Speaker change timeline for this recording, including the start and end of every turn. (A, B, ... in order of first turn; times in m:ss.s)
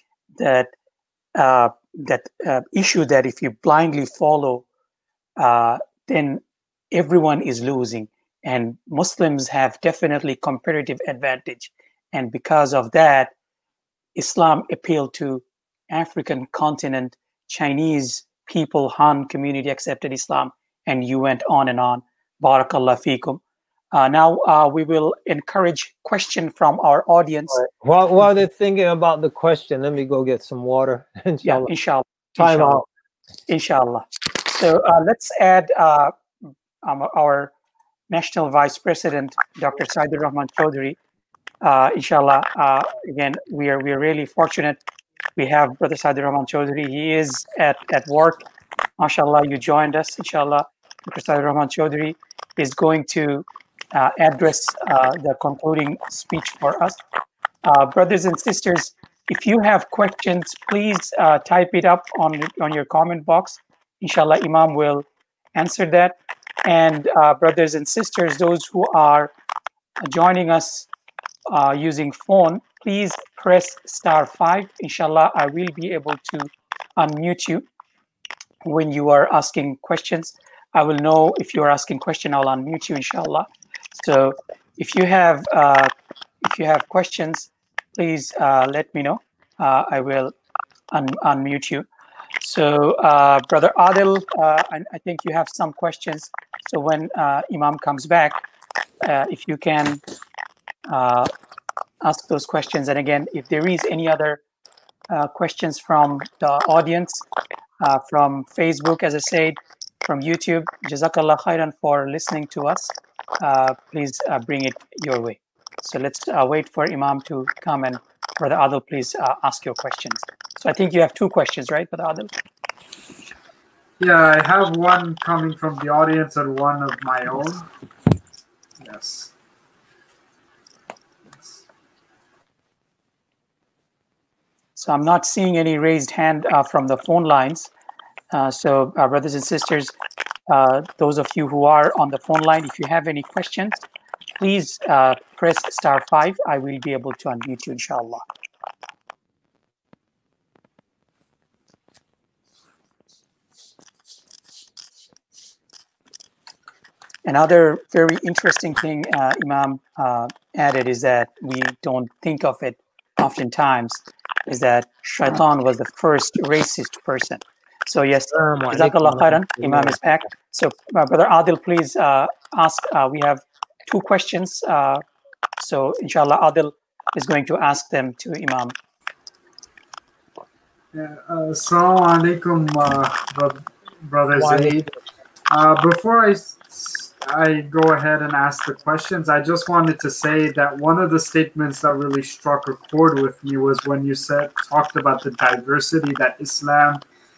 0:00.4-0:00.7 A
0:01.4-0:04.6 A
0:05.4-0:13.3 A
0:14.2-0:23.4 A
0:23.9-0:27.6 A
0:27.5-0:31.7 B
0:31.4-0:32.8 A
0:32.4-0:32.9 B
0:33.5-0:36.2 A
0:36.8-0:37.5 A
0:38.1-0:41.0 A
0:41.6-0:44.8 A
0:45.4-0:48.4 A
0:49.0-0:57.0 A
0:57.6-1:09.3 A
1:10.0-1:10.9 A
1:11.5-1:17.7 A
1:18.6-1:23.5 A
1:24.0-1:25.9 A
1:26.4-1:30.3 A
1:30.9-1:31.9 A
1:32.4-1:38.4 A
1:39.0-1:40.0 A
1:40.9-1:41.3 A
1:42.0-1:44.4 A
1:45.1-1:47.2 A
1:47.8-2:02.3 A
2:04.0-2:07.7 C
2:08.8-2:09.3 C
2:14.8-2:17.7 A
2:18.3-2:20.0 A
2:20.5-2:23.8 A
2:24.4-2:28.3 A
2:37.3-2:55.0 A
2:48.3-2:50.0 B
2:55.6-2:58.8 A
3:00.9-3:04.8 C
3:04.4-3:05.0 B
3:05.5-3:17.0 C